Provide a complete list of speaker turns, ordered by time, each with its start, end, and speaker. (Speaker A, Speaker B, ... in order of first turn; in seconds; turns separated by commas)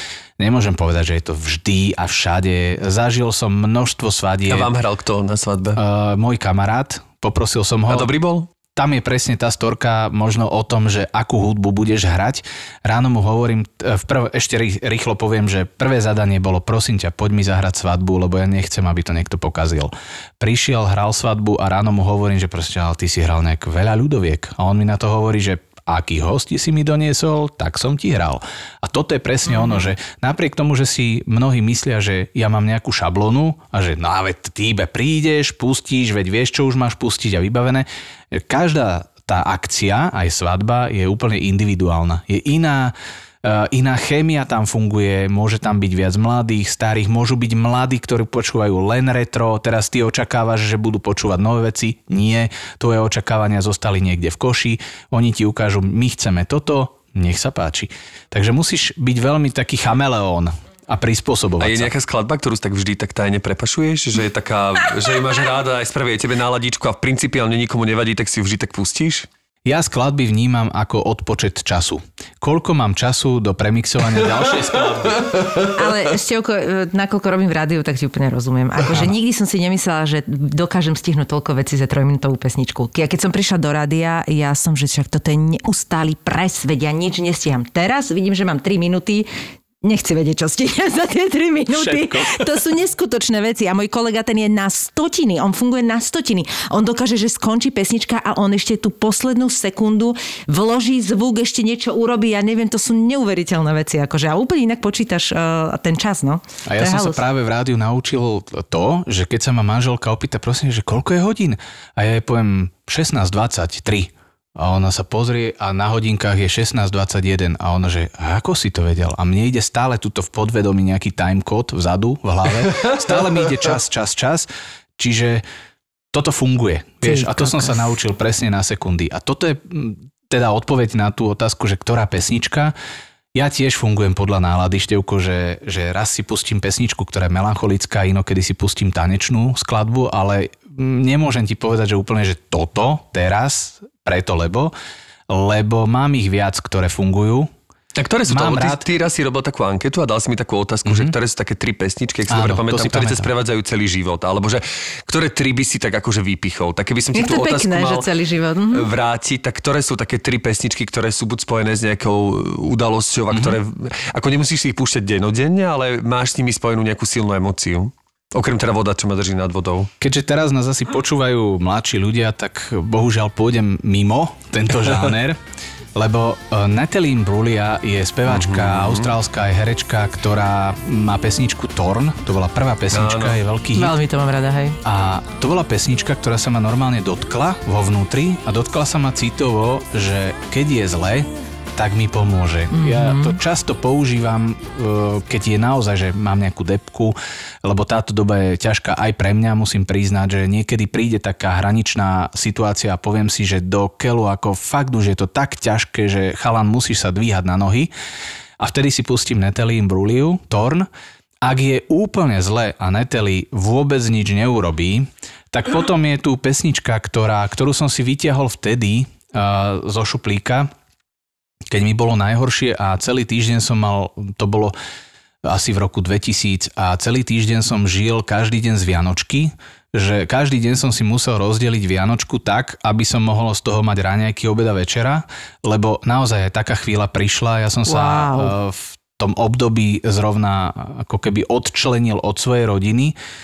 Speaker A: 0.4-4.7, Speaker B: 4.5-5.8, Speaker A: 5.8-8.1, Speaker B: 7.9-8.5, Speaker A: 8.8-61.9, Speaker C: 29.5-29.9, Speaker B: 61.6-69.3, Speaker A: 69.7-75.3, Speaker B: 75.2-75.6, Speaker C: 75.6-89.3, Speaker C: 89.8-107.2, Speaker A: 91.7-92.5, Speaker A: 106.7-125.4, Speaker A: 126.1-132.7, Speaker C: 127.0-127.8, Speaker A: 133.3-144.7, Speaker A: 145.3-147.5, Speaker B: 147.9-158.1, Speaker A: 148.3-148.9, Speaker A: 150.8-151.1, Speaker A: 152.3-153.3, Speaker C: 157.1-158.9, Speaker B: 158.7-169.9, Speaker A: 163.3-163.6, Speaker A: 170.0-175.4, Speaker A: 175.9-184.0, Speaker B: 178.3-179.1, Speaker B: 182.9-183.4, Speaker C: 183.8-184.8, Speaker A: 184.8-207.9, Speaker C: 192.7-193.4, Speaker A: 208.6-210.9, Speaker A: 211.4-220.7, Speaker A: 221.7-224.7, Speaker A: 225.5-243.2, Speaker C: 237.9-238.5